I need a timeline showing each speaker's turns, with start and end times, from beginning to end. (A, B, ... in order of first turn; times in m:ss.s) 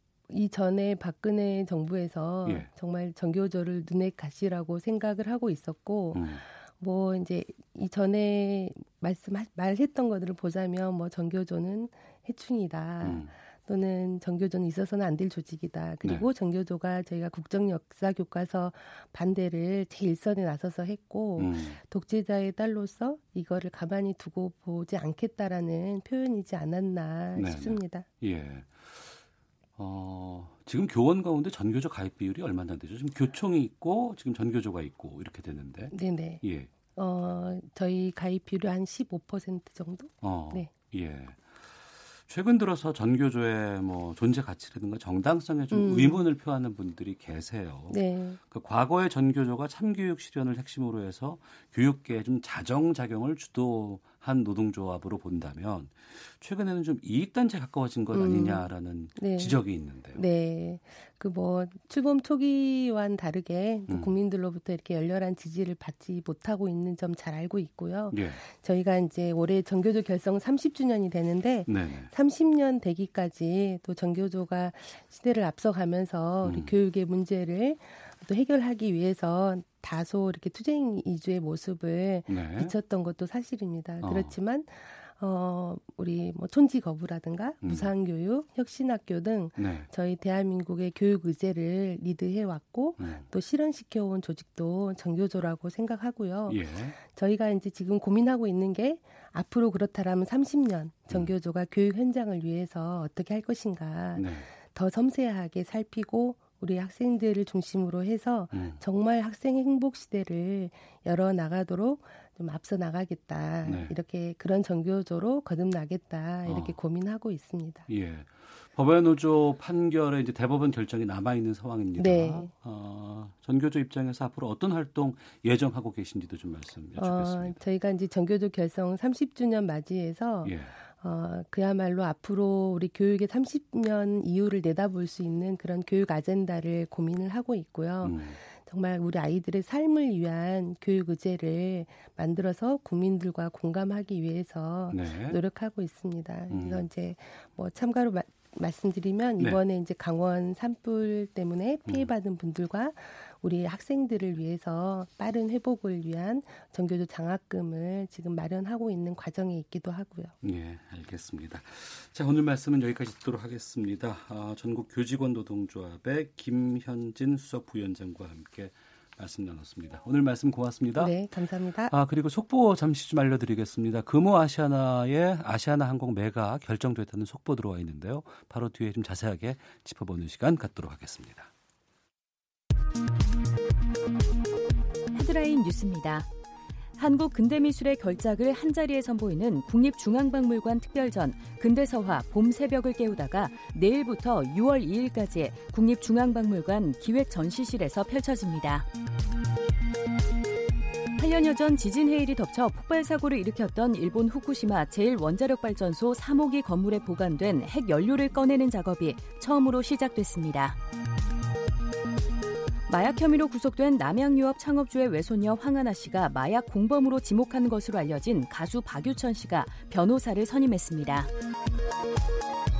0:00.3-0:28.0 A
0:06.1-0:06.4 B
0:13.0-0:13.3 B
0:21.4-0:21.8 B
0:27.3-0:29.2 B
0:29.8-0:36.7 B
0:35.9-0:36.4 A
0:37.0-0:40.7 A
0:40.2-0:41.6 B
0:42.3-0:48.0 B
0:45.7-0:46.3 A
0:47.9-0:48.4 A
0:48.5-1:00.2 B
0:58.1-0:59.6 A
1:00.1-1:57.9 A
1:03.9-1:04.1 B
1:08.1-1:08.4 B
1:11.7-1:12.1 B
1:16.4-1:16.7 B
1:22.3-1:22.7 B
1:24.0-1:24.3 B
1:27.6-1:27.9 B
1:29.6-1:29.9 B
1:33.0-1:33.2 B
1:36.5-1:36.9 B
1:44.2-1:44.5 B
1:48.5-1:48.8 B
1:53.6-1:53.9 B
1:56.4-1:56.8 B
1:57.9-2:07.6 B
2:02.0-2:02.5 A
2:07.0-2:40.3 A
2:10.4-2:10.7 B
2:18.0-2:18.4 B
2:24.9-2:25.4 B
2:26.5-2:26.8 B
2:31.9-2:32.1 B
2:40.4-2:51.1 B
2:51.0-2:51.9 A
2:51.9-3:01.5 B
3:05.1-3:06.3 C
3:07.0-3:18.9 C
3:21.2-3:30.8 C
3:32.9-3:41.3 C